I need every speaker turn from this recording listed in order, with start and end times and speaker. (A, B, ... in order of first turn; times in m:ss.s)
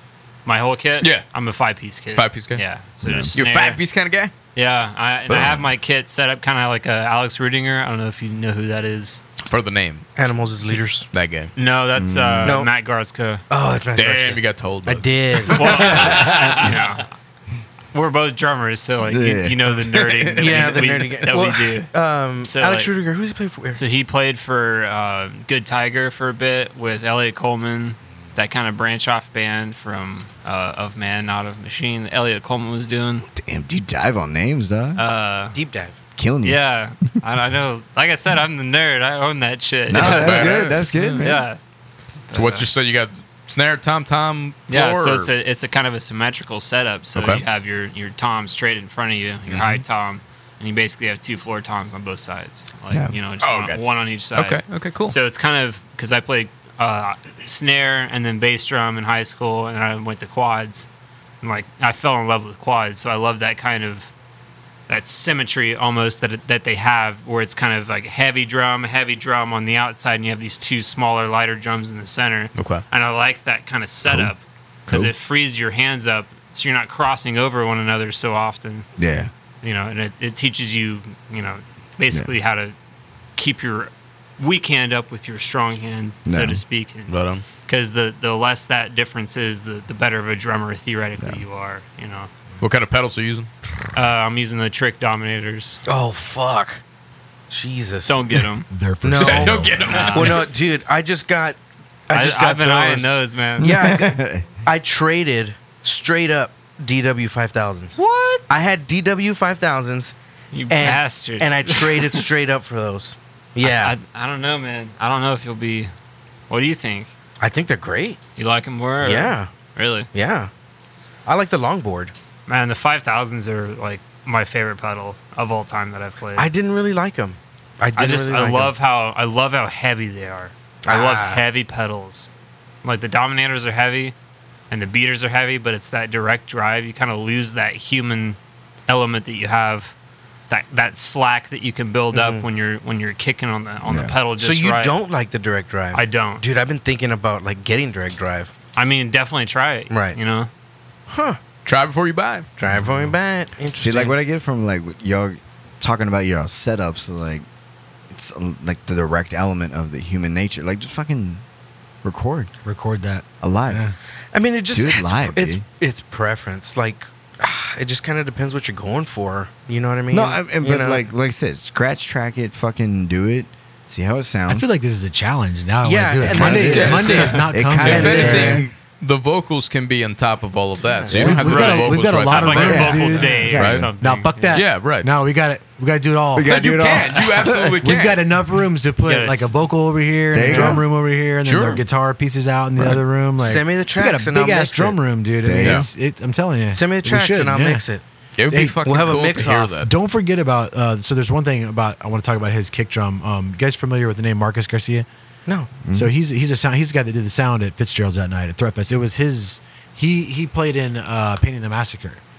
0:00.4-0:03.8 A
0:01.0-0:01.3 B
0:02.1-0:02.6 B
0:03.0-0:03.3 C
0:03.3-0:04.3 B
0:04.6-0:09.2 A
0:05.3-0:05.7 B
0:09.4-0:10.1 B
0:10.2-0:11.1 D
0:11.1-0:11.5 B
0:11.6-0:13.4 A
0:12.0-0:12.6 C
0:12.4-0:12.7 D
0:13.5-0:16.1 D
0:14.0-0:16.3 B
0:15.5-0:17.1 A
0:16.1-0:16.6 C
0:17.9-0:21.9 A
0:19.1-0:19.8 C
0:19.9-0:20.8 B
0:20.4-0:23.8 D
0:22.4-0:22.9 A
0:23.7-0:33.2 A
0:33.3-0:35.0 C
0:35.0-0:35.6 A
0:35.5-0:36.0 D
0:36.2-0:36.6 C
0:36.4-0:41.6 A
0:39.9-0:41.5 C
0:39.9-0:41.3 B
0:42.3-0:42.7 A
0:42.3-0:45.3 B
0:44.7-1:00.9 A
0:47.1-0:47.4 B
0:53.4-0:55.2 B
1:01.4-1:04.1 A
1:04.9-1:18.9 A
1:12.6-1:12.9 B
1:14.0-1:14.3 C
1:19.0-1:19.3 C
1:19.6-1:22.8 A
1:23.4-1:32.3 A
1:26.3-1:26.6 C
1:27.1-1:27.4 B
1:32.6-1:33.5 B
1:33.9-1:35.8 A
1:35.8-1:36.8 D
1:37.5-1:38.2 D
1:38.1-1:38.7 A
1:38.7-1:40.1 E
1:39.0-1:41.6 D
1:39.1-1:40.5 B
1:39.8-1:40.6 A
1:42.1-1:50.1 D
1:42.1-1:43.8 A
1:43.6-1:44.5 C
1:48.0-1:48.4 A
1:50.5-1:52.3 A
1:50.7-1:54.0 D
1:53.6-1:55.9 A
1:56.5-1:57.1 A
1:57.4-1:58.2 D
1:58.4-2:00.1 A
1:59.0-1:59.5 D
2:00.1-2:00.5 D
2:01.3-2:02.1 D
2:02.5-2:06.5 A
2:06.4-2:08.7 D
2:08.0-2:12.3 A
2:10.8-2:11.4 D
2:12.8-2:14.1 A
2:14.7-2:19.9 A
2:20.5-2:25.0 A
2:22.1-2:22.4 D
2:23.9-2:24.2 C
2:24.4-2:28.5 D
2:25.9-2:26.4 A
2:28.8-2:30.5 A
2:29.9-2:30.2 D
2:31.1-2:31.4 D
2:31.6-2:32.5 B
2:32.6-2:34.2 D
2:33.8-2:37.4 C
2:38.1-2:41.4 C
2:42.0-2:42.5 C
2:42.6-2:44.0 E
2:43.4-2:43.9 C
2:44.3-2:51.1 D
2:44.7-2:45.6 C
2:50.1-2:54.7 C
2:54.5-2:58.7 E
2:55.8-2:58.6 D
2:56.3-2:58.7 C
2:56.3-3:03.9 B
3:01.1-3:01.9 C
3:01.1-3:06.6 E
3:01.4-3:04.6 A
3:02.7-3:03.0 C
3:03.5-3:03.9 C
3:04.5-3:05.1 B
3:06.3-3:07.8 C
3:06.5-3:08.3 B
3:07.8-3:17.8 E
3:09.0-3:09.5 A
3:10.3-3:10.9 C
3:10.5-3:10.8 D
3:11.4-3:11.8 B
3:13.4-3:15.0 D
3:15.4-3:15.9 C
3:15.6-3:15.9 B
3:16.7-3:18.0 D
3:18.4-3:19.9 B
3:18.5-3:19.1 E
3:18.8-3:19.8 D
3:19.8-3:25.1 E
3:25.8-3:26.1 C
3:25.9-3:32.2 E